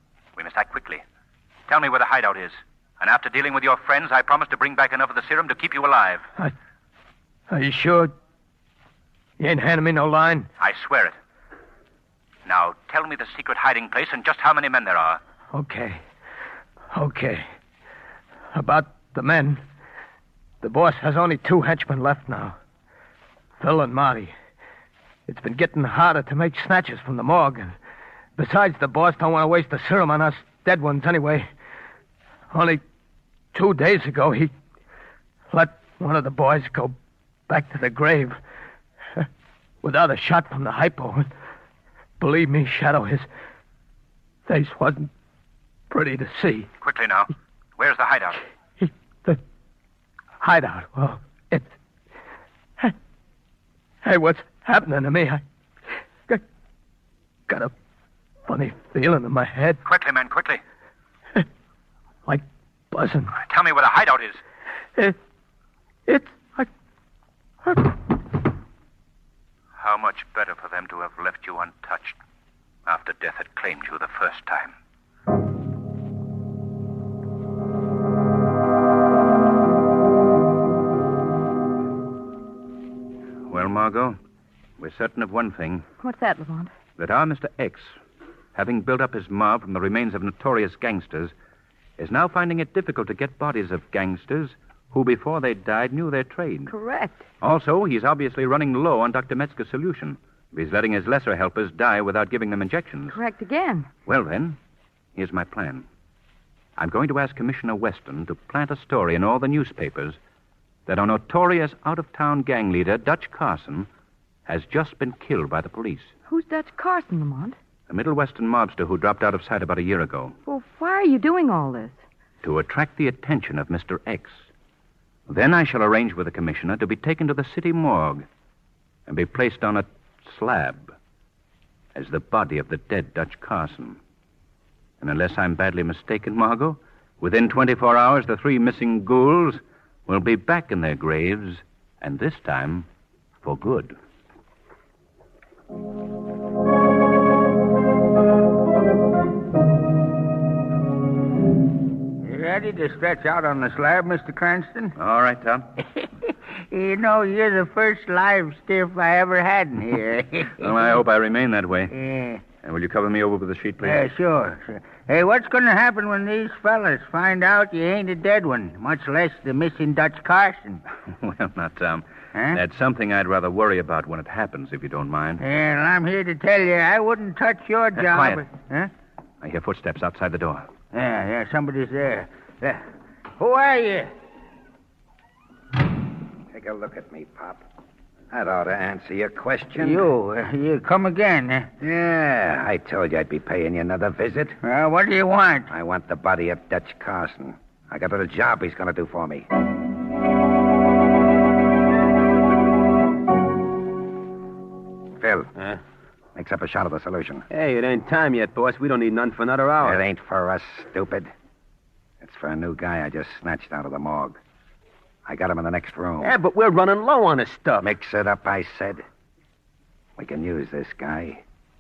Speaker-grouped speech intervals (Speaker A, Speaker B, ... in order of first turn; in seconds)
Speaker A: 0.4-1.0, 1.7-6.2, 10.6-11.2, 12.4-15.2, 46.8-48.4, 59.8-60.6, 63.3-64.4, 69.8-72.2, 72.9-74.7, 83.5-84.2, 84.8-85.9, 86.9-88.0, 88.5-91.3, 92.0-96.7, 97.4-103.2, 104.1-104.6, 105.2-105.9, 106.8-110.2, 110.9-113.9, 114.5-116.1, 117.9-120.3, 122.4-124.5, 125.3-128.3, 129.1-130.9, 131.9-134.0, 135.0-142.9, 143.4-143.9, 155.0-155.7, 160.6-161.9, 162.6-164.1, 171.2-175.4, 178.0-178.5, 179.4-180.7
Speaker B: 7.5-8.1, 9.4-10.5, 15.5-16.0, 16.9-17.5, 18.5-19.6, 20.6-22.6, 23.6-24.3, 25.3-27.8, 28.4-31.5, 32.5-32.8, 33.5-34.5, 35.5-37.0, 37.5-38.4, 39.8-41.3, 42.2-43.3, 44.5-45.1, 45.9-46.7, 48.8-49.4, 50.4-51.7, 54.0-55.4, 58.5-59.8, 62.3-63.3, 66.1-66.7
Speaker C: 86.0-86.8, 96.7-97.2, 103.1-103.9, 116.3-117.6, 120.5-122.0
Speaker D: 152.2-154.9, 156.7-160.7, 161.9-162.5, 163.8-170.8, 172.3-172.6, 175.4-178.9, 180.9-182.8, 183.4-184.1, 189.8-192.1, 194.6-195.7
Speaker E: 186.5-187.6, 188.3-190.1, 192.0-194.6, 195.7-199.5, 205.2-205.5, 206.4-207.4, 209.8-211.3, 212.2-214.4, 215.3-216.3, 217.8-219.0, 220.2-221.4
Speaker F: 207.5-210.0, 216.2-217.9